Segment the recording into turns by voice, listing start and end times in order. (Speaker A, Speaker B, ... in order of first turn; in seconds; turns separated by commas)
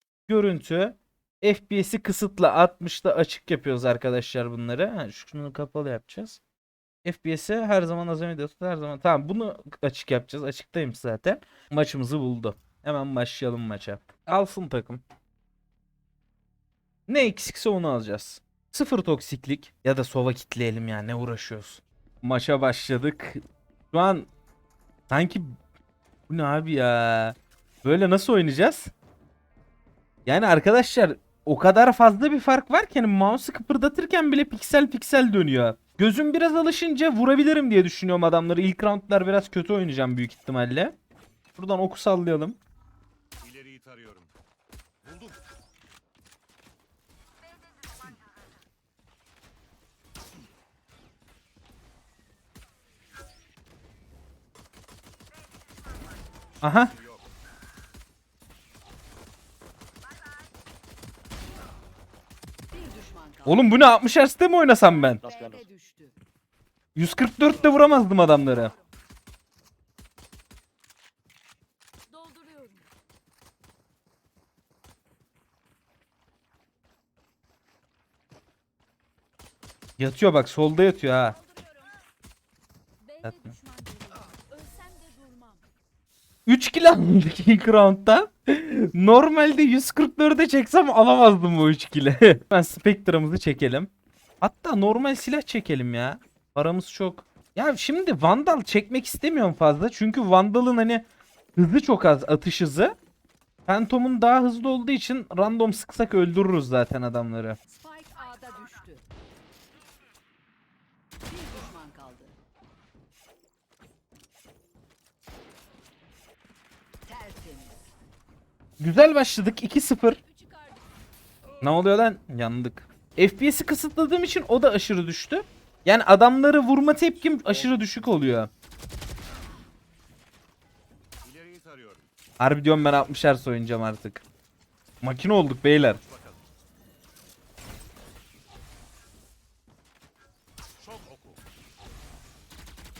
Speaker A: 0.3-6.4, Speaker A: 7.0-15.0, Speaker A: 17.1-24.3, Speaker A: 25.1-25.5, Speaker A: 26.3-28.9, Speaker A: 30.2-41.0, Speaker A: 41.5-42.6, Speaker B: 43.4-44.3, Speaker B: 45.0-45.3, Speaker A: 56.6-56.9, Speaker C: 62.7-63.4, Speaker A: 63.4-65.2, Speaker B: 65.2-65.7, Speaker C: 65.5-66.1, Speaker A: 66.9-68.7, Speaker C: 72.1-72.9, Speaker A: 80.0-81.4, Speaker C: 81.4-82.0, Speaker C: 83.0-85.6, Speaker A: 83.2-83.5, Speaker A: 86.5-93.9, Speaker A: 94.4-103.0, Speaker A: 103.7-107.6, Speaker C: 107.7-109.0, Speaker C: 111.3-112.3, Speaker C: 117.1-117.8, Speaker A: 118.8-120.2, Speaker C: 120.2-120.8, Speaker A: 121.6-128.5, Speaker B: 131.2-132.0, Speaker A: 132.4-134.2, Speaker A: 135.0-136.0, Speaker B: 136.0-136.4, Speaker B: 140.8-141.4